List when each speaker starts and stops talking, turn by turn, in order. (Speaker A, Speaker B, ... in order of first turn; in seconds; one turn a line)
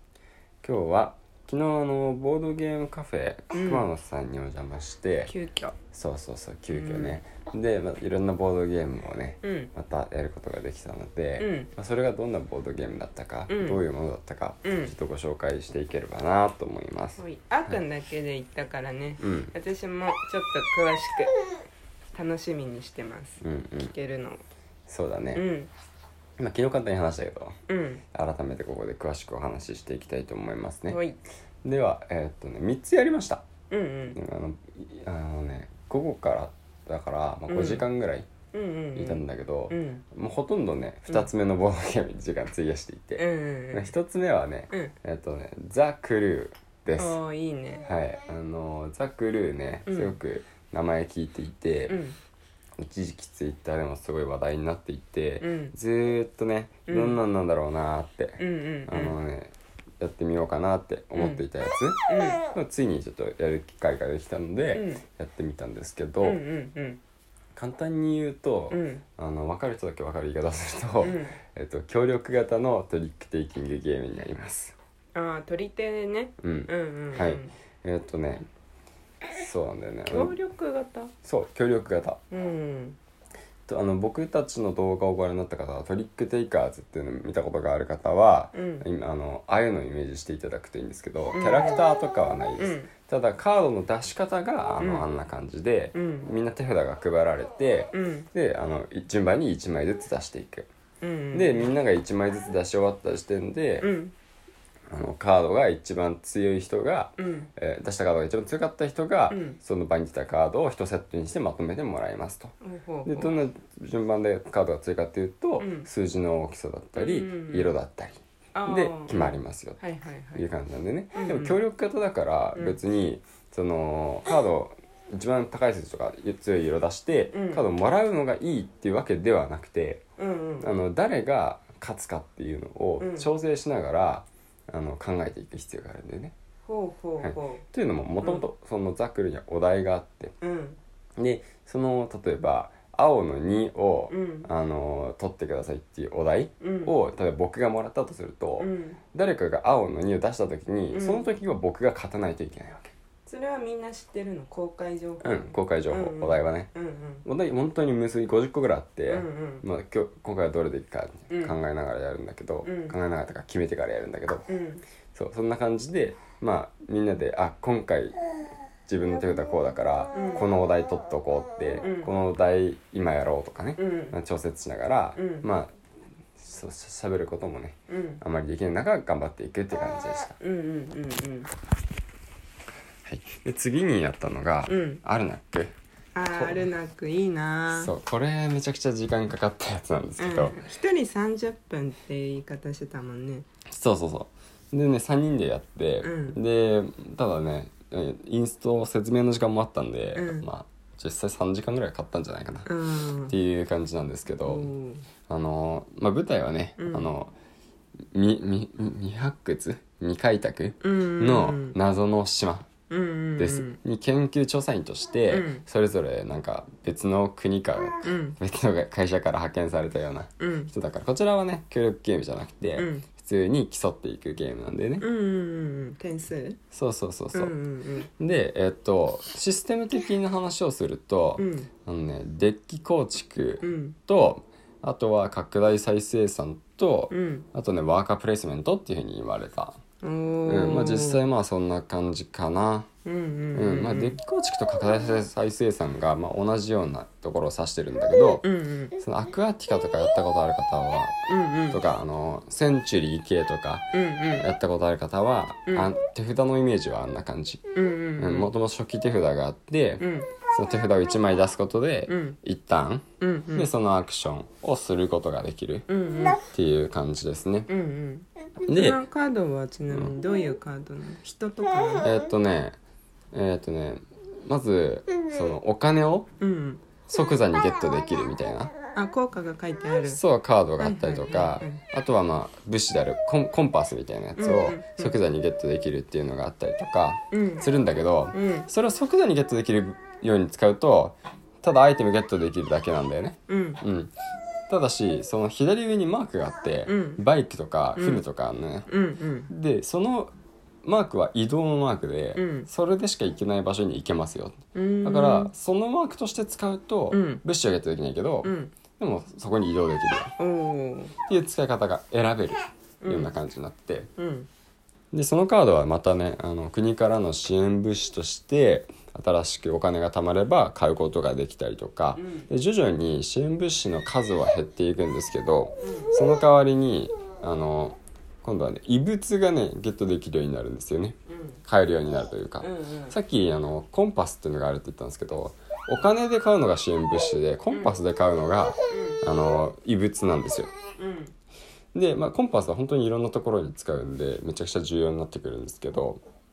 Speaker A: 0.6-5.3
Speaker B: 3.5-3.9
Speaker B: 5.3-5.8
Speaker A: 5.9-17.8
Speaker B: 6.7-7.2
Speaker B: 9.4-9.7
Speaker B: 11.4-11.7
Speaker B: 13.5-13.8
Speaker B: 14.6-14.9
Speaker B: 17.2-21.4
Speaker A: 19.2-19.5
Speaker B: 22.1-24.4
Speaker A: 23.4-23.9
Speaker A: 24.9-25.4
Speaker B: 25.3-25.7
Speaker A: 26.4-27.6
Speaker B: 27.7-28.0
Speaker A: 28.1-31.0
Speaker B: 30.9-31.2
Speaker A: 31.6-33.4
Speaker B: 33.7-34.2
Speaker A: 34.1-38.3
Speaker B: 37.5-37.9
Speaker B: 38.5-40.0
Speaker A: 39.0-47.2
Speaker B: 43.2-43.9
Speaker B: 47.0-47.9
Speaker A: 47.8-52.0
Speaker B: 49.9-50.2
Speaker B: 51.9-52.2
Speaker A: 52.8-66.4
Speaker B: 55.4-55.8
Speaker B: 56.9-57.2
Speaker B: 58.4-59.2
Speaker B: 61.1-61.4
Speaker B: 62.1-62.4
Speaker B: 64.7-65.0
Speaker B: 66.2-67.0
Speaker A: 67.5-74.8
Speaker B: 68.7-69.0
Speaker B: 71.0-71.4
Speaker B: 75.2-77.5
Speaker A: 76.4-78.5
Speaker A: 79.3-80.4
Speaker B: 80.1-81.1
Speaker A: 81.2-82.2
Speaker B: 82.3-83.0
Speaker A: 83.7-100.7
Speaker B: 88.5-88.8
Speaker B: 91.3-91.8
Speaker B: 92.6-92.9
Speaker B: 94.8-95.1
Speaker B: 95.9-96.3
Speaker B: 97.9-98.3
Speaker B: 101.0-101.7
Speaker A: 101.3-103.9
Speaker B: 103.8-104.1
Speaker A: 104.9-112.5
Speaker B: 107.2-107.5
Speaker B: 109.3-109.6
Speaker B: 112.6-113.3
Speaker A: 113.1-119.8
Speaker B: 115.6-115.9
Speaker B: 117.0-117.8
Speaker B: 118.5-120.5
Speaker A: 120.3-130.0
Speaker B: 121.1-121.6
Speaker B: 127.3-127.6
Speaker B: 130.2-130.7
Speaker A: 130.6-136.3
Speaker B: 133.0-133.3
Speaker B: 136.7-137.6
Speaker A: 137.2-140.3
Speaker B: 140.4-140.8
Speaker A: 141.2-152.9
Speaker B: 144.1-144.5
Speaker B: 146.6-146.9
Speaker B: 148.6-149.0
Speaker B: 150.9-151.3
Speaker B: 153.3-157.2
Speaker A: 155.2-156.7
Speaker A: 157.2-164.5
Speaker B: 159.1-159.7
Speaker B: 161.3-161.6
Speaker B: 162.6-163.0
Speaker B: 164.5-164.8
Speaker A: 165.1-168.2
Speaker A: 168.9-175.7
Speaker B: 170.1-170.5
Speaker B: 171.8-172.1
Speaker B: 173.8-174.2
Speaker B: 175.2-175.5
Speaker A: 176.4-180.4
Speaker B: 177.9-178.2
Speaker B: 180.4-181.5
Speaker A: 183.1-185.7
Speaker B: 184.7-185.0
Speaker B: 186.1-187.9
Speaker A: 186.3-186.7
Speaker A: 187.7-190.6
Speaker B: 190.2-193.5
Speaker A: 193.7-204.7
Speaker B: 196.0-196.4
Speaker B: 200.2-200.5
Speaker B: 202.7-203.3
Speaker B: 204.4-205.1
Speaker A: 205.3-207.3
Speaker B: 206.8-207.1
Speaker A: 208.1-212.7
Speaker B: 210.8-211.8
Speaker B: 212.9-213.8
Speaker A: 213.4-225.1
Speaker B: 215.3-215.6
Speaker B: 218.0-218.4
Speaker B: 220.4-220.7
Speaker B: 222.8-223.1
Speaker B: 225.0-226.6
Speaker A: 226.7-227.6
Speaker B: 227.3-228.1
Speaker A: 228.2-239.8
Speaker B: 231.4-231.7
Speaker B: 233.6-234.0
Speaker B: 237.1-237.5
Speaker B: 240.0-241.2
Speaker A: 240.5-242.9
Speaker B: 243.1-244.2
Speaker A: 243.6-248.5
Speaker B: 248.4-248.9
Speaker A: 249.0-265.9
Speaker B: 251.3-251.8
Speaker B: 253.9-254.5
Speaker B: 255.7-255.9
Speaker B: 257.7-258.5
Speaker B: 260.0-260.3
Speaker B: 262.1-262.4
Speaker B: 263.2-263.7
Speaker B: 265.9-266.4
Speaker A: 266.4-267.7
Speaker B: 267.7-272.1
Speaker A: 268.6-269.0
Speaker A: 272.0-272.8
Speaker A: 273.3-276.3
Speaker B: 276.4-276.8
Speaker A: 277.1-278.7
Speaker B: 278.9-280.2
Speaker A: 280.1-294.1
Speaker B: 280.8-281.8
Speaker B: 284.4-285.2
Speaker B: 287.3-287.7
Speaker B: 288.3-288.7
Speaker B: 293.5-293.8
Speaker A: 294.7-298.9
Speaker B: 296.9-297.2
Speaker B: 297.9-298.2
Speaker B: 298.9-299.5
Speaker A: 299.5-300.3
Speaker A: 300.8-310.4
Speaker B: 302.4-302.7
Speaker B: 304.7-305.5
Speaker B: 307.1-307.4
Speaker B: 308.4-308.7
Speaker B: 310.4-311.1
Speaker A: 311.3-314.1
Speaker B: 313.0-313.3
Speaker B: 314.2-314.5
Speaker A: 315.1-340.7
Speaker B: 322.1-322.5
Speaker B: 325.8-326.1
Speaker B: 331.3-331.6
Speaker B: 332.6-333.1
Speaker B: 337.7-338.0
Speaker B: 338.9-339.2
Speaker B: 341.0-341.3
Speaker A: 341.9-346.2